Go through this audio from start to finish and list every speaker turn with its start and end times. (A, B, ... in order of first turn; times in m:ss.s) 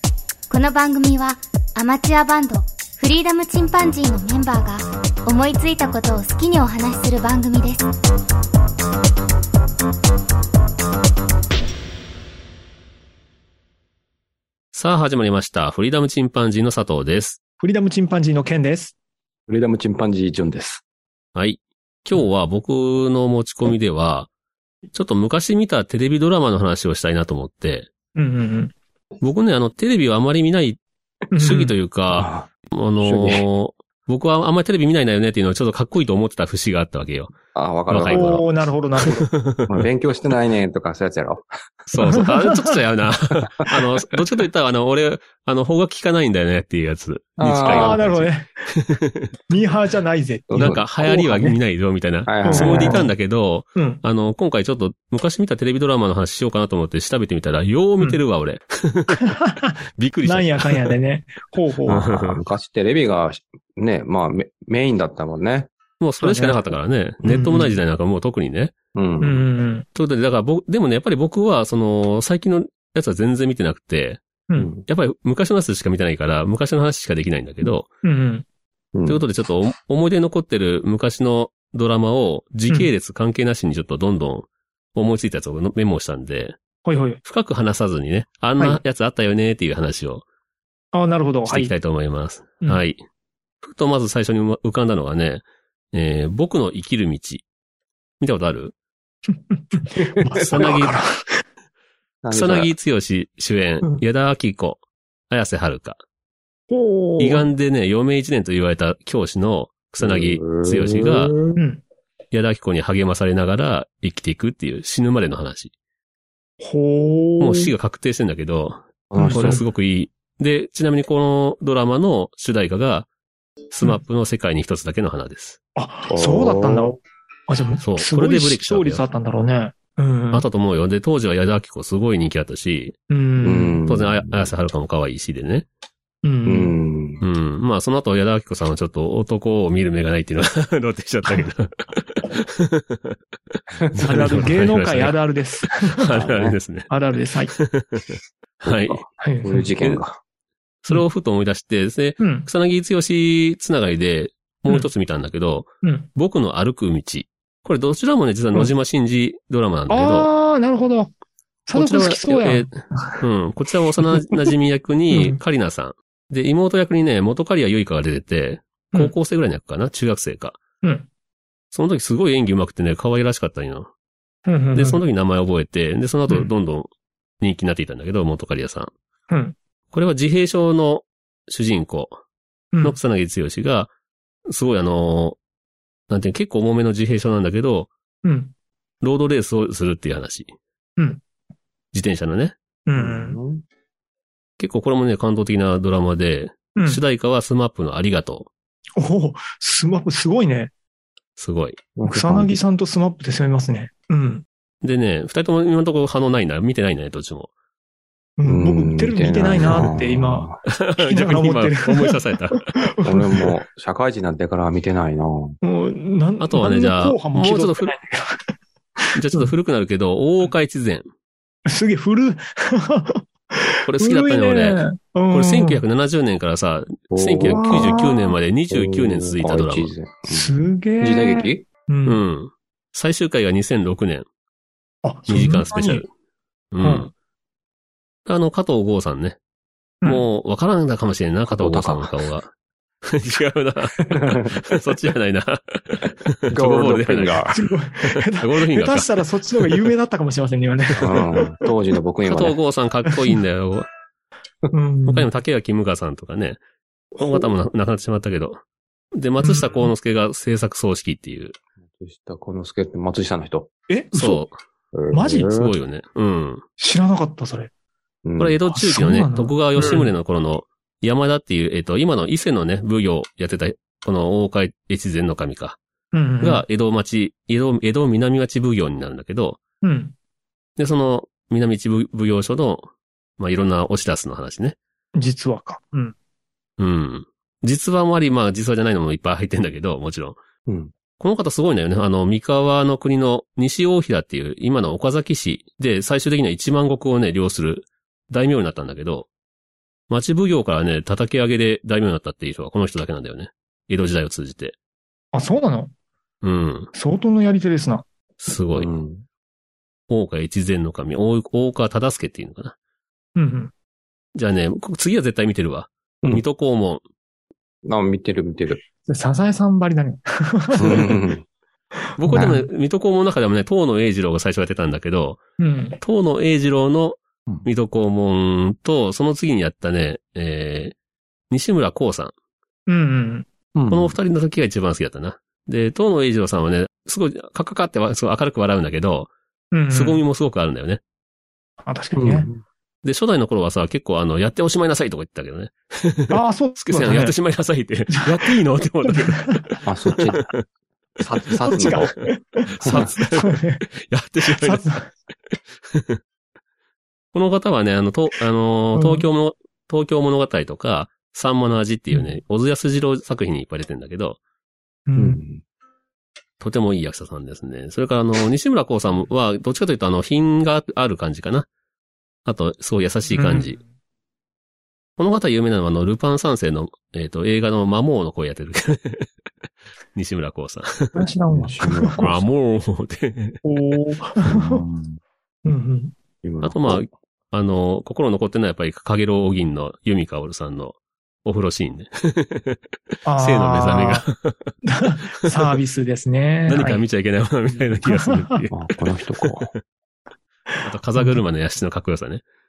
0:00.5-0:07.8 A
0:14.7-0:17.4 B
0:17.6-0:18.9 C
0:19.5-0:20.8 D
0:21.4-0:24.3 B
0:24.9-0:27.9 B
0:28.2-0:28.7 C
0:29.2-0:30.8 B
0:31.3-0:31.7 C
0:31.4-0:37.4 B
0:32.1-0:32.5 D
0:33.0-0:33.4 D
0:37.5-0:38.4 D
0:37.9-0:38.4 B
0:38.1-0:39.2 C
0:39.1-0:39.7 B
0:39.7-0:41.5 D
0:41.9-0:49.3 B
0:42.1-0:42.8 C
0:47.4-0:48.1 D
0:47.6-0:48.7 C
0:49.5-0:51.6 C
0:50.5-0:51.5 D
0:50.5-0:59.4 B
0:52.3-0:53.0 D
0:52.4-0:53.1 C
0:59.1-0:59.7 C
1:00.0-1:00.9 B
1:00.2-1:02.0 C
1:01.9-1:02.4 B
1:01.9-1:05.7 D
1:06.0-1:08.7 B
1:06.2-1:06.7 C
1:07.2-1:07.8 C
1:09.0-1:09.5 D
1:09.2-1:09.9 C
1:10.0-1:14.2 B
1:14.6-1:14.8 D
1:14.9-1:17.9 B
1:18.0-1:18.4 C
1:19.0-1:19.2 D
1:19.1-1:26.6 B
1:26.8-1:27.2 C
1:27.2-1:30.2 B
1:30.9-1:31.7 C
1:31.5-1:33.0 B
1:33.6-1:37.4 B
1:38.2-1:38.8 B
1:39.5-1:41.4 C
1:40.0-1:40.7 D
1:40.3-1:41.0 B
1:42.2-1:42.7 D
1:42.3-1:46.0 B
1:46.7-1:47.5 C
1:47.2-1:51.4 B
1:50.0-1:51.6 D
1:51.6-1:51.8 C
1:52.3-1:55.7 B
1:56.6-1:57.7 C
1:57.4-2:03.1 B
1:59.1-1:59.6 D
1:59.2-1:59.6 C
2:03.7-2:05.6 B
2:05.8-2:10.4 C
2:06.1-2:06.9 D
2:07.8-2:09.0 B
2:10.3-2:13.0 B
2:13.1-2:13.8 C
2:13.4-2:14.5 D
2:13.9-2:15.7 B
2:16.2-2:16.8 C
2:16.5-2:17.2 D
2:17.2-2:23.2 B
2:23.9-2:26.9 B
2:24.0-2:26.1 C
2:26.1-2:26.6 D
2:26.9-2:27.5 C
2:27.5-2:30.0 B
2:28.7-2:30.2 D
2:29.2-2:29.7 C
2:30.8-2:40.3 B
2:32.2-2:32.5 C
2:35.8-2:36.1 C
2:39.9-2:41.1 C
2:41.7-2:43.2 C
2:41.8-2:50.6 B
2:45.1-2:45.4 C
2:50.8-2:51.1 C
2:51.7-2:53.9 B
2:54.5-2:55.0 C
2:54.7-2:56.9 B
2:57.4-2:58.9 B
2:59.3-2:59.6 C
2:59.9-3:02.2 B
3:02.8-3:03.9 B
3:04.5-3:05.4 B
3:06.1-3:07.9 B
3:08.2-3:08.5 C
3:09.0-3:10.5 B
3:11.9-3:12.6 B
3:12.9-3:13.4 C
3:13.0-3:13.6 D
3:14.6-3:18.5 B
3:16.8-3:17.0 C
3:19.0-3:20.7 C
3:21.4-3:21.8 B
3:22.0-3:22.6 D
3:22.0-3:24.4 C
3:24.8-3:27.5 B
3:28.4-3:33.5 C
3:28.4-3:30.6 D
3:30.7-3:32.7 B
3:33.0-3:35.6 D
3:35.6-3:38.4 C
3:36.4-3:37.9 B
3:39.0-3:39.5 C
3:39.2-3:41.1 B
3:41.7-3:45.8 C
3:43.9-3:49.9 B
3:47.1-3:48.0 D
3:47.3-3:48.4 C
3:48.7-3:51.7 D
3:50.2-3:52.2 C
3:52.0-3:54.3 B
3:55.0-3:56.1 C
3:55.3-3:56.1 B
3:56.7-3:57.1 B
3:56.8-3:57.1 C
3:58.3-3:59.4 B
4:00.0-4:02.5 B
4:01.5-4:02.1 D
4:03.1-4:09.9 B
4:04.1-4:04.6 D
4:06.5-4:07.6 D
4:07.5-4:11.4 C
4:11.0-4:12.6 D
4:12.3-4:13.9 B
4:14.7-4:15.3 C
4:15.1-4:16.6 B
4:17.2-4:17.5 C
4:17.2-4:18.6 B
4:19.1-4:21.6 B
4:19.4-4:19.9 C
4:22.0-4:23.7 D
4:23.9-4:24.4 C
4:24.1-4:24.5 B
4:24.9-4:25.7 D
4:25.1-4:25.7 C
4:25.4-4:26.6 B
4:26.8-4:27.7 C
4:28.2-4:28.6 D
4:28.4-4:35.8 B
4:28.7-4:30.1 C
4:36.1-4:36.6 C
4:36.4-4:39.6 B
4:39.8-4:40.2 C
4:40.8-4:44.8 B
4:45.2-4:46.2 C
4:46.8-4:50.4 B
4:50.7-4:50.9 D
4:51.2-4:59.3 B
5:00.1-5:04.8 B
5:05.3-5:05.9 C
5:06.4-5:06.9 B
5:06.9-5:08.1 C
5:08.4-5:08.9 B
5:08.8-5:09.2 D
5:10.1-5:12.8 B
5:13.4-5:13.7 C
5:14.4-5:17.0 B
5:17.8-5:18.8 D
5:19.1-5:21.2 C
5:20.8-5:21.5 D
5:22.1-5:22.6 C
5:22.2-5:25.4 B
5:22.3-5:22.6 D
5:25.6-5:26.0 C
5:26.0-5:31.0 B
5:31.5-5:32.3 B
5:32.9-5:33.5 C
5:33.8-5:34.2 D
5:33.9-5:39.3 B
5:39.7-5:40.2 C
5:39.9-5:41.0 B
5:41.8-5:42.5 C
5:42.2-5:42.6 D
5:43.0-5:50.6 B
5:46.3-5:47.3 C
5:48.1-5:49.7 C
5:49.8-5:50.4 D
5:51.2-5:52.2 D
5:51.6-5:53.8 C
5:51.7-5:52.1 B
5:52.8-5:53.1 D
5:52.8-5:54.9 B
5:54.5-5:55.1 C
5:55.9-5:56.2 B
5:57.3-6:04.4 B
5:58.9-5:59.2 C
6:05.1-6:05.4 C
6:05.2-6:05.6 D
6:06.6-6:11.7 B
6:12.4-6:13.8 B
6:13.3-6:13.8 C
6:15.2-6:19.3 B
6:20.2-6:21.2 B
6:21.1-6:22.3 C
6:21.5-6:22.4 D
6:22.2-6:23.6 B
6:23.6-6:24.8 C
6:24.4-6:25.2 D
6:25.6-6:26.2 C
6:26.4-6:27.0 D
6:26.6-6:32.8 B
6:33.2-6:34.3 C
6:33.4-6:34.7 B
6:34.8-6:37.0 C
6:35.3-6:35.8 B
6:36.7-6:39.8 B
6:38.0-6:38.6 C
6:38.7-6:39.7 D
6:40.7-6:41.4 C
6:40.8-6:42.4 B